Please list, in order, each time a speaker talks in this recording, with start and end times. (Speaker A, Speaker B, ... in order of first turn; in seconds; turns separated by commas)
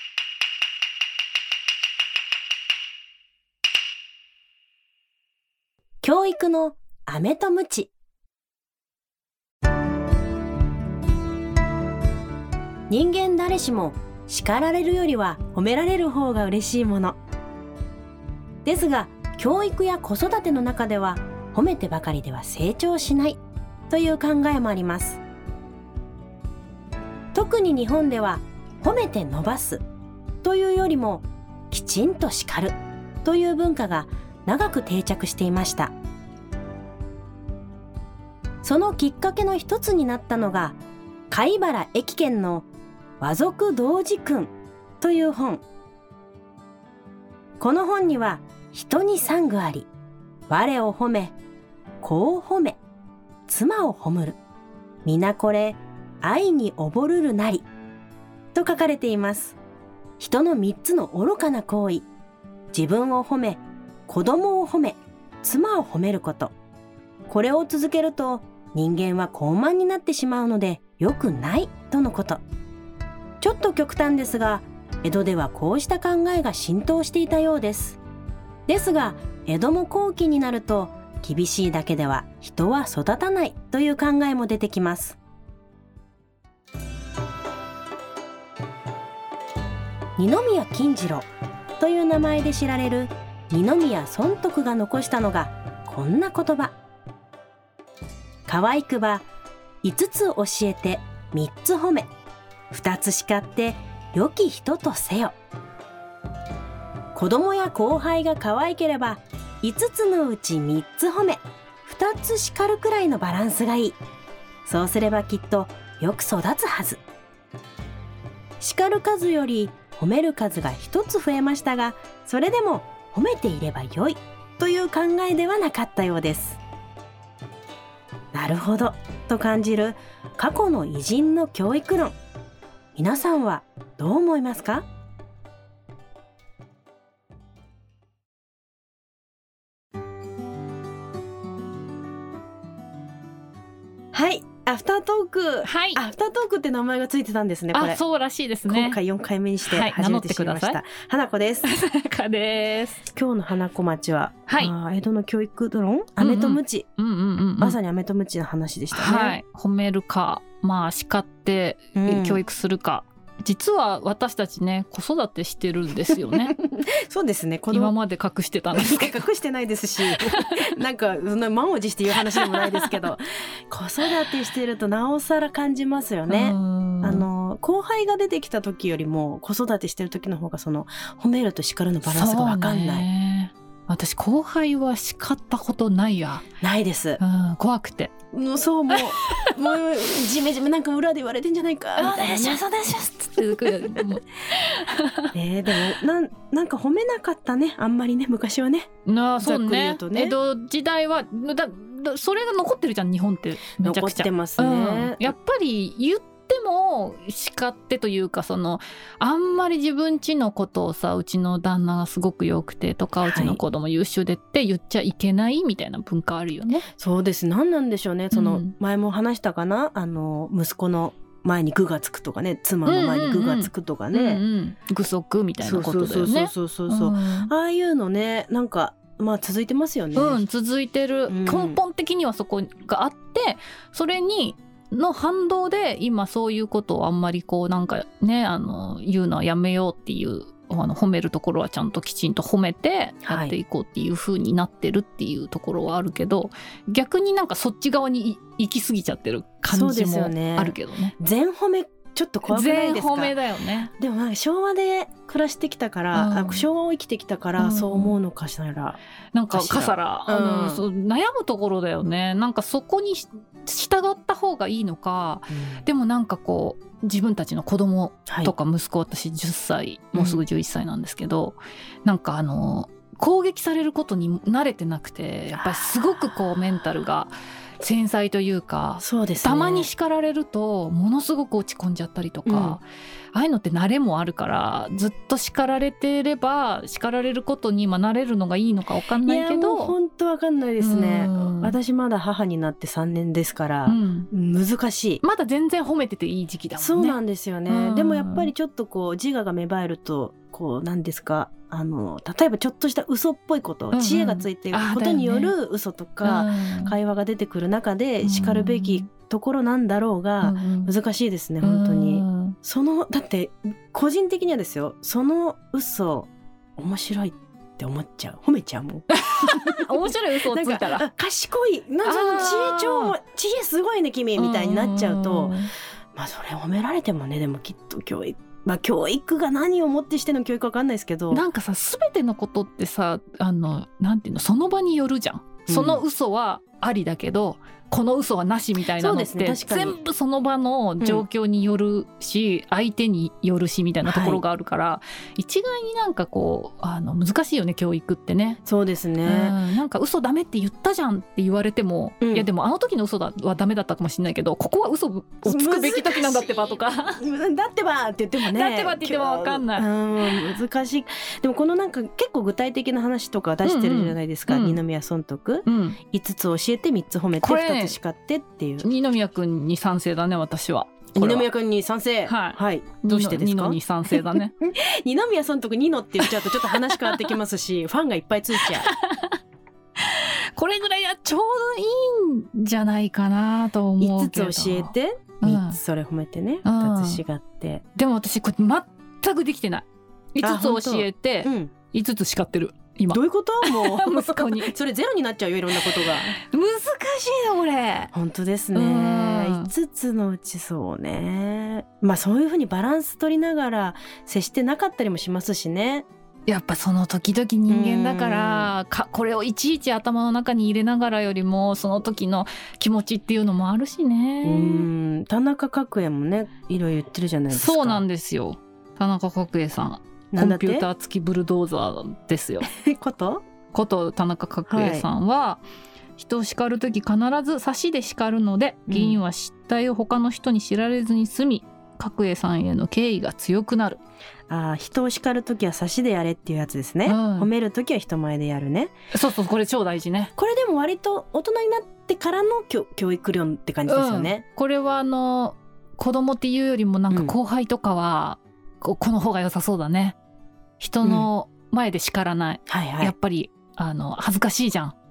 Speaker A: 6.0-7.9, Speaker A: 12.9-17.2, Speaker A: 18.6-25.2, Speaker A: 27.3-29.8, Speaker A: 30.4-35.9, Speaker A: 38.6-40.8, Speaker A: 41.3-42.7, Speaker A: 43.2-45.6, Speaker A: 47.6-49.9, Speaker A: 50.5-51.3, Speaker A: 52.0-52.8, Speaker A: 53.5-54.4, Speaker A: 55.0-57.6, Speaker A: 58.5-59.6, Speaker A: 60.2-62.1, Speaker A: 62.7-66.5, Speaker A: 67.3-72.4, Speaker A: 73.4-78.0, Speaker A: 78.7-85.2, Speaker A: 90.2-91.3, Speaker A: 91.8-96.7, Speaker A: 98.5-99.2, Speaker A: 99.8-102.1, Speaker A: 102.7-105.3, Speaker A: 107.1-114.0, Speaker A: 114.6-117.0, Speaker A: 118.6-126.6, Speaker A: 128.3-132.2, Speaker A: 132.9-134.8, Speaker A: 144.1-148.0, Speaker B: 145.6-146.0, Speaker B: 147.7-149.0, Speaker A: 148.7-151.7, Speaker B: 149.6-150.8, Speaker B: 151.6-153.0, Speaker A: 153.1-156.8, Speaker B: 154.5-154.7, Speaker B: 156.2-157.8, Speaker A: 157.6-159.4, Speaker B: 158.9-166.5, Speaker A: 161.9-162.4, Speaker A: 166.3-167.9, Speaker B: 167.7-169.2, Speaker A: 168.7-183.1, Speaker B: 170.2-170.6, Speaker B: 172.2-172.9, Speaker B: 176.3-177.2, Speaker B: 182.1-186.4, Speaker A: 186.6-187.2, Speaker B: 187.2-188.1, Speaker A: 188.3-194.2, Speaker B: 188.9-189.5, Speaker B: 192.0-195.8, Speaker A: 195.3-198.9, Speaker B: 199.1-216.9, Speaker A: 199.4-200.3, Speaker A: 203.8-205.3, Speaker A: 213.2-213.6, Speaker A: 217.0-224.4, Speaker B: 218.3-218.7, Speaker B: 222.8-227.5, Speaker A: 225.6-230.4, Speaker B: 230.1-251.2, Speaker A: 231.3-231.8, Speaker A: 243.2-243.5, Speaker A: 249.7-253.4, Speaker B: 252.5-253.9, Speaker A: 254.0-259.0, Speaker B: 256.1-256.7, Speaker B: 257.6-258.2, Speaker B: 259.3-289.9, Speaker A: 259.5-260.8, Speaker A: 265.5-265.9, Speaker A: 268.3-268.5, Speaker A: 270.1-270.4, Speaker A: 279.0-279.9, Speaker A: 282.4-282.8, Speaker A: 289.2-295.2, Speaker B: 290.8-291.7, Speaker B: 293.9-294.3, Speaker B: 295.2-298.5, Speaker A: 296.8-331.4, Speaker B: 303.9-305.5, Speaker B: 306.2-306.9, Speaker B: 308.2-309.1, Speaker B: 310.4-310.9, Speaker B: 311.6-312.6, Speaker B: 319.1-321.1, Speaker B: 322.0-323.1, Speaker B: 324.4-325.7, Speaker B: 331.3-348.6, Speaker A: 335.7-336.0, Speaker A: 338.9-340.0, Speaker A: 344.0-344.4, Speaker A: 348.6-349.6, Speaker B: 349.2-357.2, Speaker A: 352.2-352.5, Speaker A: 355.4-368.9, Speaker B: 358.4-359.9, Speaker B: 363.6-364.8, Speaker B: 365.6-366.0, Speaker B: 367.4-368.0, Speaker B: 368.8-371.5, Speaker A: 371.1-378.9, Speaker B: 372.2-374.5, Speaker B: 376.2-377.3, Speaker B: 378.6-379.4, Speaker B: 380.0-385.8, Speaker A: 384.0-387.8, Speaker B: 386.6-387.2, Speaker B: 387.9-394.7, Speaker A: 390.4-391.7, Speaker A: 393.1-396.4, Speaker B: 396.4-398.1, Speaker A: 398.1-406.1, Speaker B: 398.7-399.7, Speaker B: 406.5-414.9, Speaker A: 407.7-408.7, Speaker A: 414.4-418.0, Speaker B: 417.5-422.7, Speaker A: 420.3-420.9, Speaker A: 422.6-423.4, Speaker B: 423.7-425.6, Speaker A: 424.7-425.1, Speaker B: 426.2-434.0, Speaker A: 428.9-429.2, Speaker A: 434.5-438.9, Speaker B: 437.1-437.5, Speaker B: 439.1-440.3, Speaker A: 440.4-444.4, Speaker B: 443.9-450.2, Speaker A: 447.1-447.4, Speaker B: 450.8-454.9, Speaker A: 451.0-451.3, Speaker A: 452.7-453.1